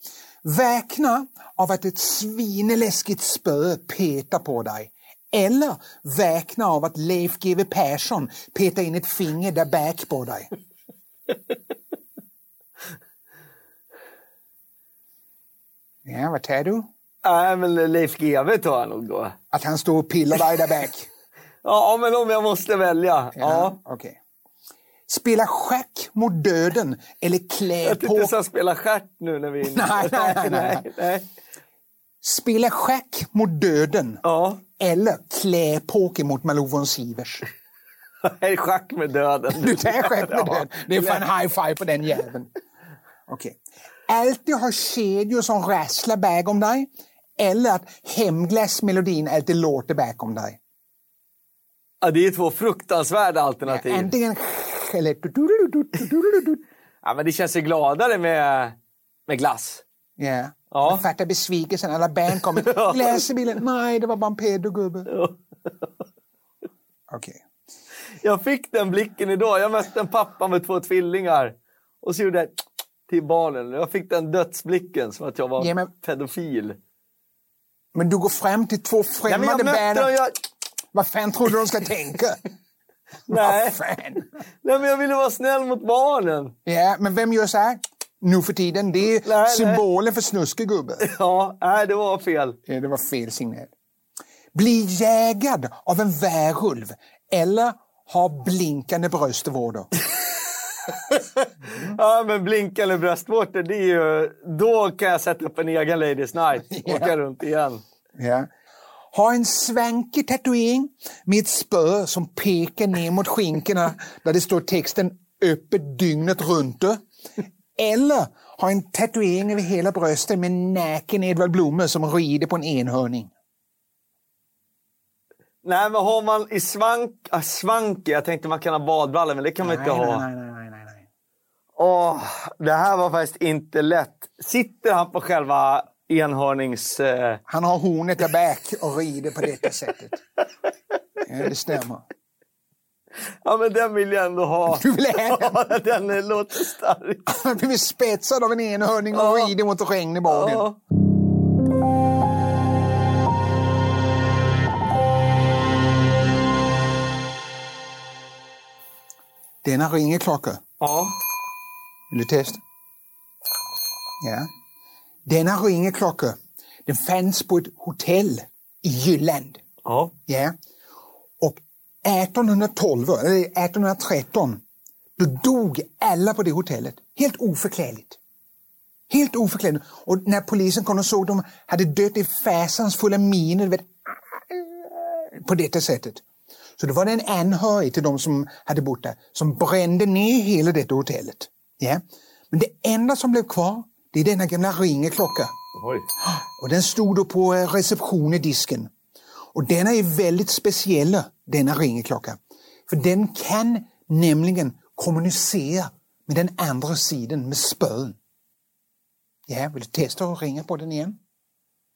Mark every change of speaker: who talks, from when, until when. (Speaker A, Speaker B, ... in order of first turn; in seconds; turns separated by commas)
Speaker A: 0.4-10.5, Speaker A: 16.1-16.9, Speaker B: 17.2-19.4, Speaker A: 19.5-21.1, Speaker B: 21.6-23.8, Speaker A: 23.4-24.2, Speaker A: 25.1-28.3, Speaker B: 27.8-31.3, Speaker A: 29.6-30.8, Speaker A: 32.2-37.4, Speaker B: 34.2-34.6, Speaker B: 38.2-41.2, Speaker A: 39.5-42.5, Speaker A: 43.3-50.6, Speaker B: 52.0-54.1, Speaker A: 53.7-56.6, Speaker B: 57.0-58.8, Speaker B: 59.3-59.8, Speaker A: 60.2-65.1, Speaker B: 60.7-61.0, Speaker B: 62.6-63.2, Speaker B: 65.1-65.4, Speaker A: 67.1-67.4, Speaker B: 68.2-76.8, Speaker A: 75.6-75.9, Speaker A: 77.9-80.1, Speaker B: 79.3-80.3, Speaker A: 80.9-82.4, Speaker B: 83.3-83.8, Speaker A: 83.3-84.2, Speaker B: 84.6-86.5, Speaker A: 86.7-91.1, Speaker B: 89.2-89.8, Speaker B: 91.0-92.6, Speaker A: 92.7-93.7, Speaker A: 94.5-99.9, Speaker B: 101.1-107.8, Speaker A: 101.7-102.0, Speaker A: 106.7-107.1, Speaker A: 108.2-108.5, Speaker A: 109.1-117.0, Speaker A: 117.8-123.3, Speaker B: 125.6-130.2, Speaker A: 129.6-131.0, Speaker B: 131.8-137.4, Speaker A: 137.5-140.2, Speaker A: 141.3-142.0, Speaker B: 143.4-147.3, Speaker A: 144.7-145.6, Speaker A: 147.3-150.7, Speaker B: 149.1-149.5, Speaker B: 150.3-150.8, Speaker A: 159.6-160.6, Speaker B: 160.8-161.2, Speaker A: 162.1-162.6, Speaker A: 164.2-164.5, Speaker A: 165.2-169.6, Speaker B: 169.8-170.1, Speaker A: 170.3-170.5, Speaker A: 171.4-174.6, Speaker A: 175.2-178.2, Speaker A: 179.1-186.2, Speaker A: 186.8-195.5, Speaker B: 195.8-196.1, Speaker A: 196.2-198.9, Speaker A: 199.5-208.2, Speaker A: 209.5-211.2